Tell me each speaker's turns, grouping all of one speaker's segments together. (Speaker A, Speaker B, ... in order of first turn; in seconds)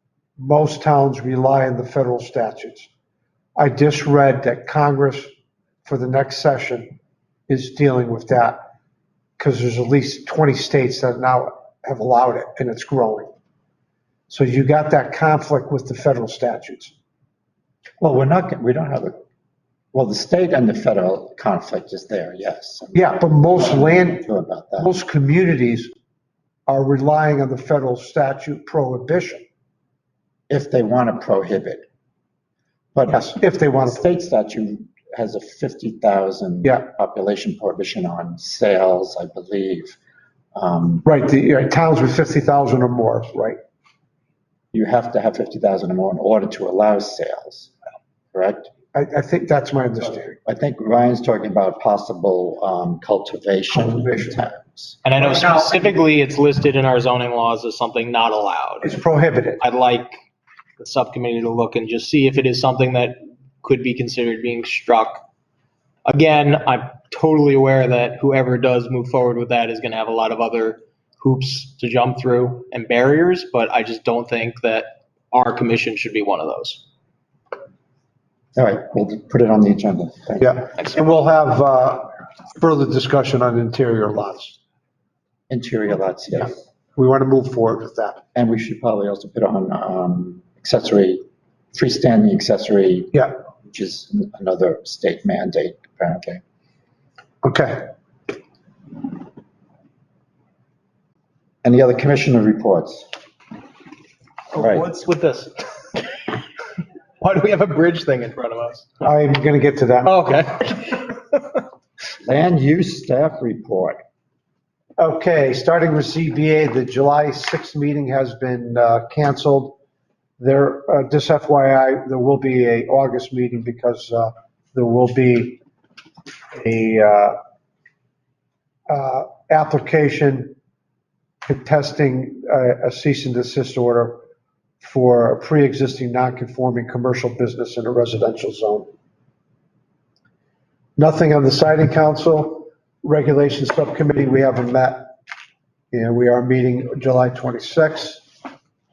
Speaker A: 0.4-2.9, 3.5-5.3, 5.8-6.9, 7.5-8.6, 9.4-13.3, 14.3-16.9, 22.9-24.2, 24.8-25.9, 26.7-29.4, 33.1-34.1, 41.0-43.6, 48.9-50.4, 53.7-54.4, 58.8-59.6, 80.4-84.6, 86.9-88.2, 97.4-97.9, 109.0-110.1, 115.0-119.8, 120.4-125.6, 126.5-127.3, 128.9-130.5, 131.4-134.2, 134.8-138.9, 141.0-145.1, 145.9-148.2
Speaker B: 18.0-19.2, 19.9-24.9, 30.5-31.9, 32.9-33.3, 33.8-40.0, 40.5-41.0, 44.7-47.7, 48.3-48.7, 50.4-55.0, 78.5-80.7, 85.5-86.6, 88.3-96.4, 101.6-103.1, 104.5-104.8, 112.2-114.0
Speaker C: 55.0-59.0, 59.6-60.1, 60.8-65.2, 66.0-76.8, 104.5-106.3, 107.2-108.9, 110.0-111.6